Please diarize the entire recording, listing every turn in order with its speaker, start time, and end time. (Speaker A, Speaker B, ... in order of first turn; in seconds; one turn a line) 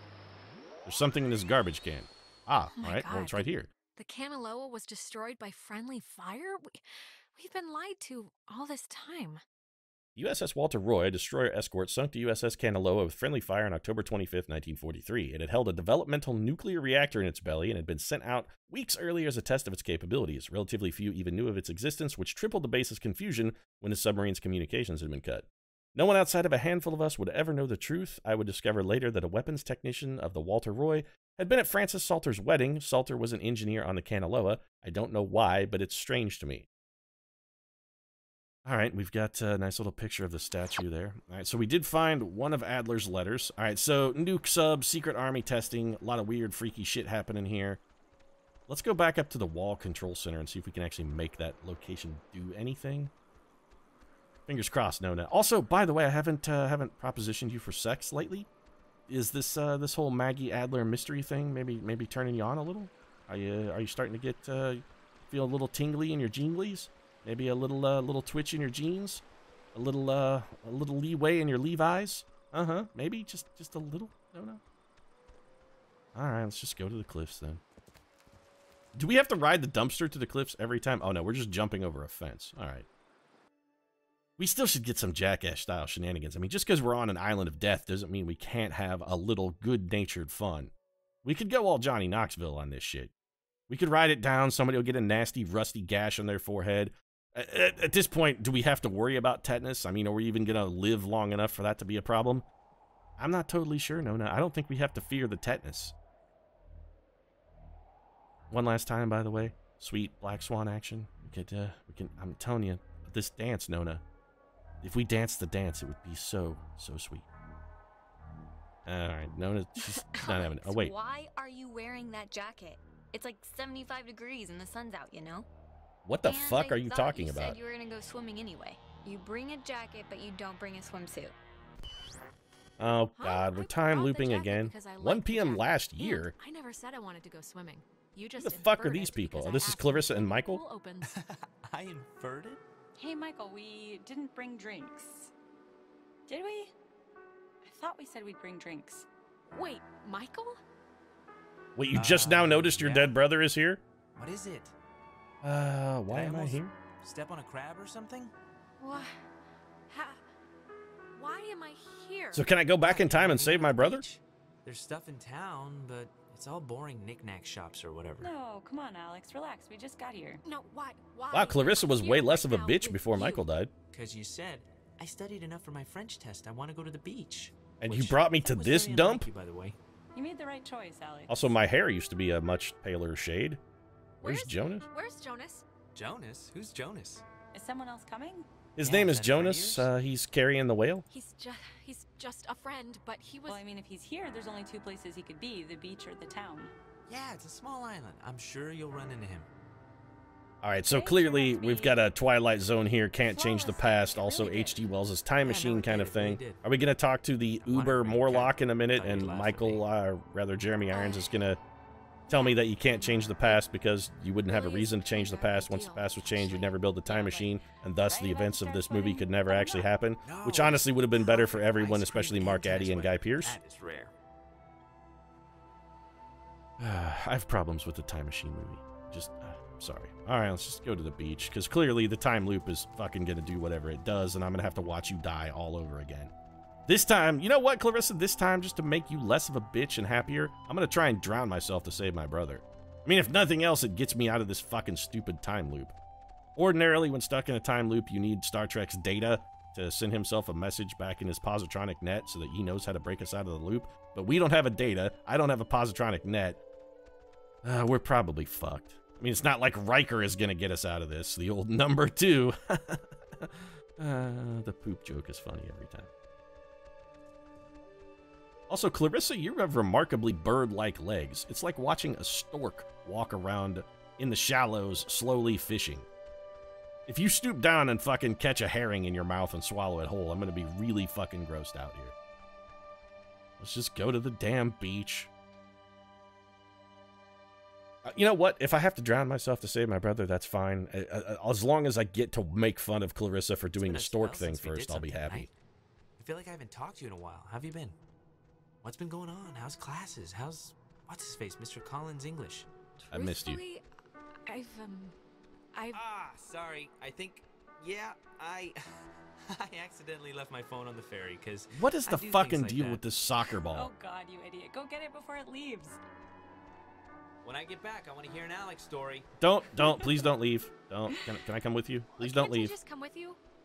Speaker A: 0.9-3.7
Speaker B: 2.7-6.8
Speaker B: 7.3-9.4
Speaker A: 10.2-36.6
Speaker A: 38.6-47.8
Speaker A: 48.7-53.1
Speaker A: 54.5-58.5
Speaker A: 59.1-69.2
Speaker A: 69.7-74.6
Speaker A: 76.1-77.6
Speaker A: 79.0-82.9
Speaker A: 84.4-90.7
Speaker A: 91.2-93.1
Speaker A: 93.7-102.5
Speaker A: 103.2-105.9
Speaker A: 108.5-114.0
Speaker A: 114.8-117.3
Speaker A: 118.8-120.9
Speaker C: 119.8-125.5
Speaker A: 126.0-127.6
Speaker C: 126.2-131.4
Speaker A: 132.8-136.3
Speaker B: 133.2-141.1
Speaker A: 138.4-140.6
Speaker D: 141.1-142.6
Speaker E: 143.0-145.3
Speaker E: 146.3-146.7
Speaker E: 147.6-149.1
Speaker B: 149.5-150.6
Speaker A: 151.8-153.8
Speaker D: 151.9-153.2
Speaker D: 154.2-154.8
Speaker A: 155.4-156.7
Speaker D: 156.1-158.3
Speaker B: 158.8-159.2
Speaker B: 159.9-160.2
Speaker B: 161.1-162.5
Speaker A: 162.3-164.1
Speaker D: 162.8-168.3
Speaker E: 168.2-170.4
Speaker B: 170.4-173.4
Speaker A: 171.3-173.7
Speaker D: 173.9-179.8
Speaker A: 177.8-179.3
Speaker E: 180.1-181.5
Speaker A: 181.3-183.6
Speaker B: 184.2-185.6
Speaker A: 184.2-184.8
Speaker D: 185.9-187.2
Speaker E: 187.5-188.5
Speaker A: 188.8-191.1
Speaker D: 188.8-189.9
Speaker B: 191.1-193.6
Speaker E: 193.5-196.7
Speaker D: 197.1-199.5
Speaker A: 200.6-211.6
Speaker E: 200.8-202.0
Speaker E: 203.2-204.8
Speaker B: 203.5-204.5
Speaker D: 205.4-206.6
Speaker D: 207.6-209.8
Speaker B: 210.9-211.3
Speaker B: 212.3-213.6
Speaker A: 212.3-223.6
Speaker B: 214.5-217.5
Speaker E: 218.0-219.9
Speaker D: 220.2-224.1
Speaker A: 226.8-236.3
Speaker A: 236.9-245.9
Speaker A: 246.6-256.6
Speaker A: 257.6-266.1
Speaker A: 268.7-276.1
Speaker A: 277.1-282.1
Speaker A: 283.6-285.3
Speaker A: 288.1-295.5
Speaker D: 293.8-295.5
Speaker D: 296.2-298.0
Speaker D: 298.8-302.7
Speaker B: 303.0-303.8
Speaker A: 303.1-303.6
Speaker B: 304.5-305.1
Speaker B: 305.7-306.0
Speaker D: 305.9-308.8
Speaker D: 309.5-313.1
Speaker A: 311.7-313.9
Speaker E: 313.7-316.0
Speaker D: 317.4-319.3
Speaker A: 319.4-322.8
Speaker B: 322.1-323.4